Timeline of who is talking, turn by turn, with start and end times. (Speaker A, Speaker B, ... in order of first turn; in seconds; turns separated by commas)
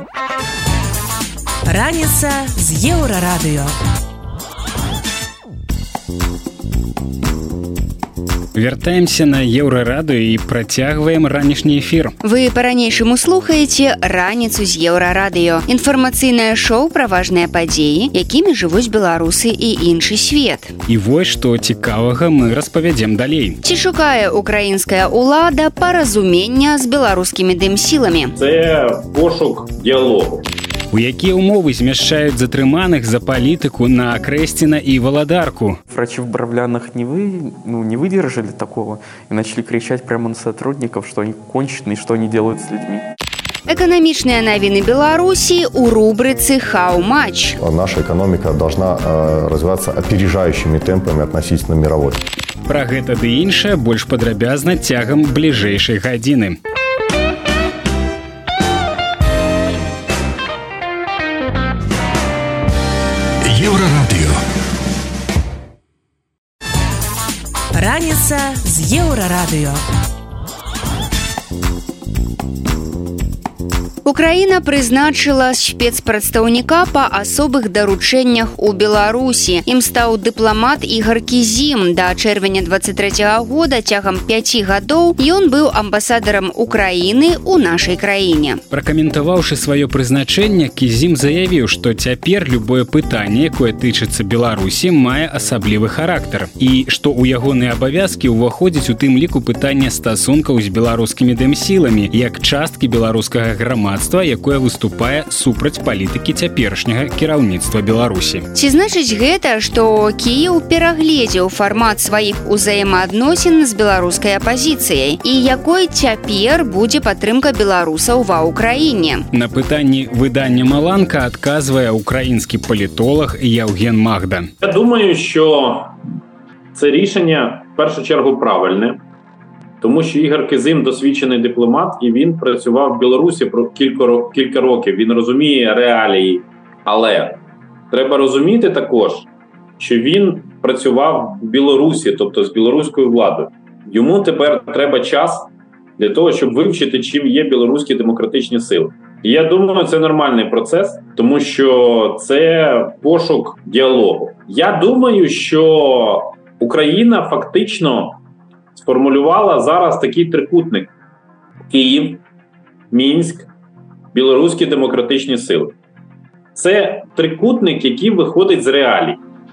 Speaker A: 1.6-3.8, Speaker B: 8.6-12.2, Speaker C: 12.2-20.7, Speaker B: 20.9-23.6, Speaker C: 23.6-28.3, Speaker D: 28.4-30.5, Speaker B: 30.9-35.8, Speaker E: 35.9-43.0, Speaker C: 43.7-47.6, Speaker F: 47.6-52.2, Speaker B: 52.7-56.6, Speaker A: 67.7-69.8, Speaker C: 74.0-88.6, Speaker B: 88.7-108.4, Speaker C: 108.5-119.3, Speaker B: 119.3-124.5, Speaker D: 124.6-126.0, Speaker D: 126.7-129.0, Speaker D: 129.8-137.4, Speaker D: 137.9-139.3, Speaker D: 139.8-158.2, Speaker D: 158.8-160.9, Speaker D: 161.7-162.2, Speaker D: 162.9-163.5, Speaker D: 164.1-165.7, Speaker D: 166.6-169.2